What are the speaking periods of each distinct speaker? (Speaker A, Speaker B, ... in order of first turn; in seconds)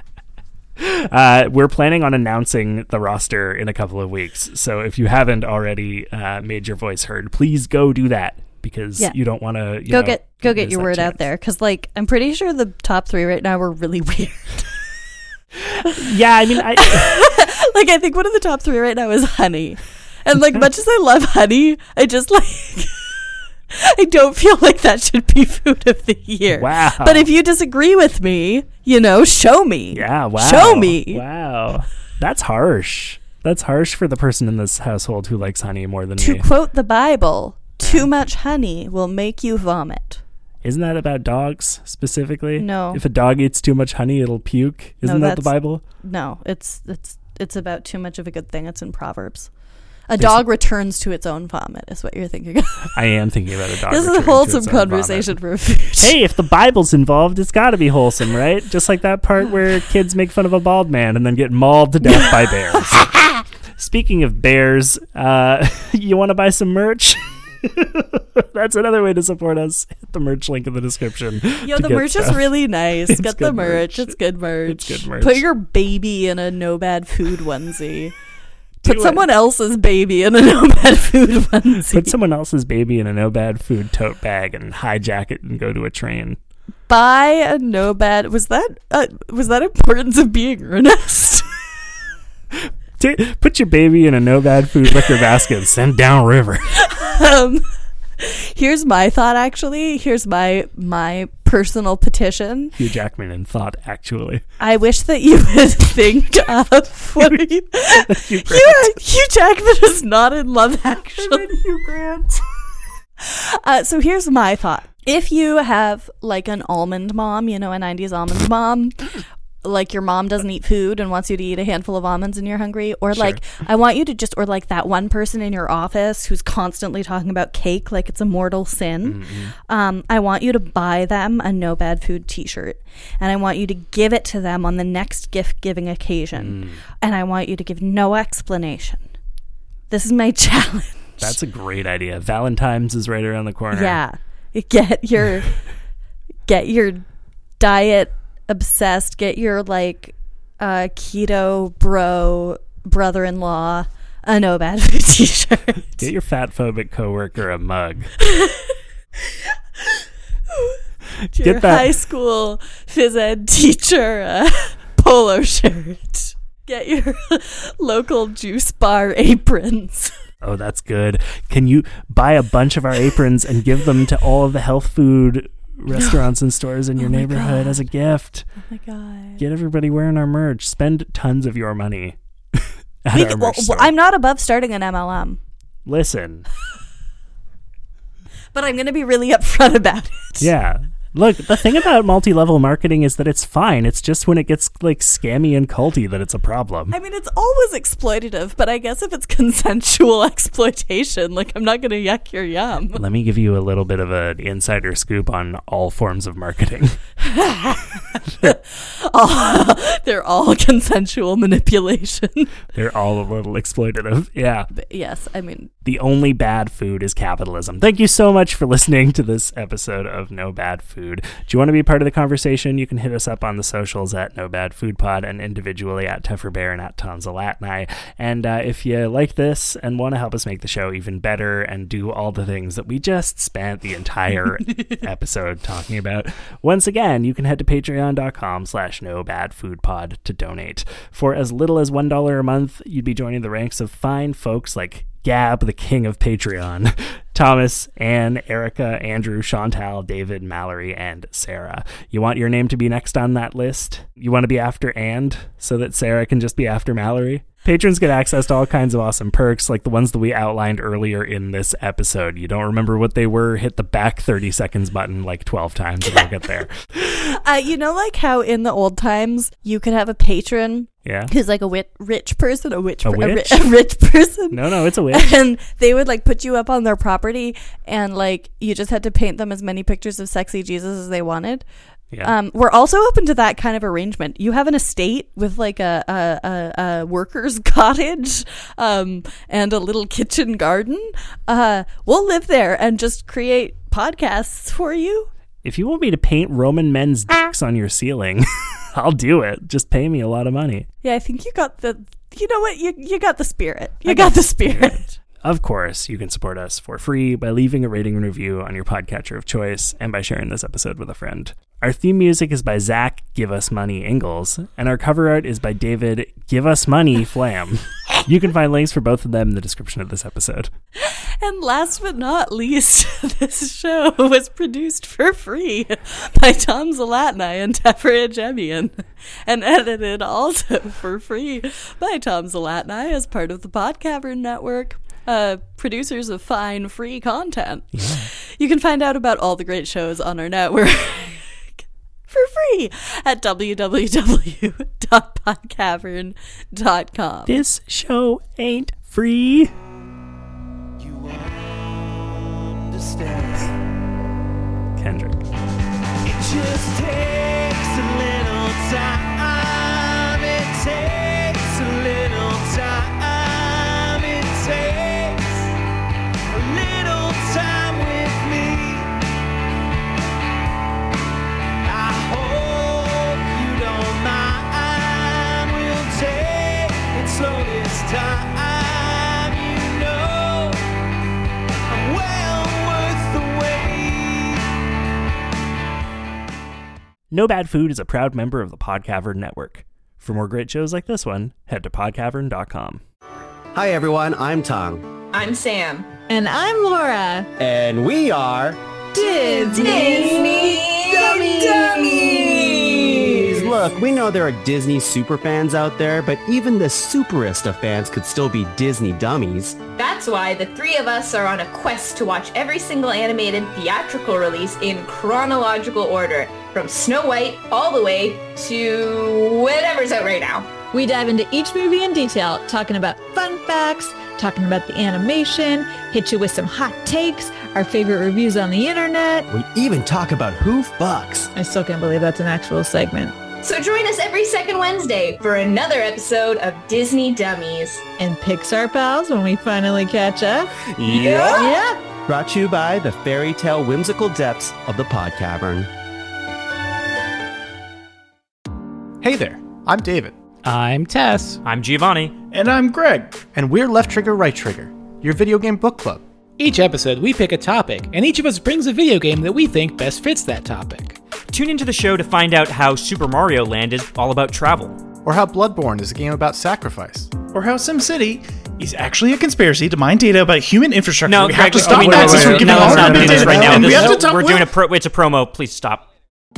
Speaker A: 0.8-11.2, 15.6-17.2, 26.6-27.3, 29.9-36.5, 37.8-38.1, 40.6-45.8, 50.2-50.4, 52.9-55.4, 56.0-63.2, 63.8-72.5, 73.1-75.4, 78.8-79.2, 81.9-86.4, 92.5-96.8, 102.7-104.4, 107.2-109.0, 111.3-111.6, 123.1-123.4, 129.0-129.5, 136.3-136.8, 141.2-144.0, 156.0-158.1, 161.3-161.9, 170.4-178.5, 179.4-183.9, 185.8-186.4, 190.4-196.9, 202.9-207.0, 208.3-208.5, 212.7-214.7, 215.8-266.8, 271.0-271.3, 273.0-273.7, 274.5-275.3, 295.6-300.9, 304.1-320.7, 337.9-338.3, 347.5-349.7, 355.0-355.4, 387.3-393.0
Speaker B: 9.9-14.7, 16.8-23.1, 23.7-31.2, 36.2-40.2, 42.6-43.0, 45.0-49.5, 50.1-52.9, 53.9-56.1, 71.6-78.1, 78.8-82.2, 86.9-91.5, 96.7-97.6, 98.2-102.8, 104.6-111.5, 113.2-119.1, 119.6-139.0, 139.9-141.3, 143.7-145.6, 146.4-147.0, 147.6-156.1, 158.2-158.7, 160.5-160.8, 161.3-170.1, 175.9-176.2, 177.0-177.8, 178.6-179.4, 183.1-185.4, 188.5-190.5, 196.9-203.0, 207.2-212.6, 214.7-215.7, 267.0-281.6, 282.2-295.3, 301.0-305.1, 321.0-341.6, 342.3-347.6
Speaker C: 351.0-353.7, 356.2-365.7, 366.5-369.1, 371.8-380.8, 381.9-384.6
Speaker D: 393.7-395.1, 397.6-398.8, 400.0-400.3, 401.3-409.8, 429.5-431.5, 441.0-441.7, 442.2-445.9
Speaker E: 395.3-396.1, 399.2-403.7, 409.9-420.8, 433.6-438.0, 441.1-441.7
Speaker F: 396.3-397.5, 399.1-400.8, 420.9-429.5, 431.5-433.4, 438.2-440.7, 441.5-442.0
Speaker G: 449.2-450.4, 452.5-456.2, 465.2-474.7
Speaker H: 450.6-451.6, 456.6-461.2, 472.4-474.2
Speaker I: 451.6-452.3, 461.5-465.0, 471.2-476.1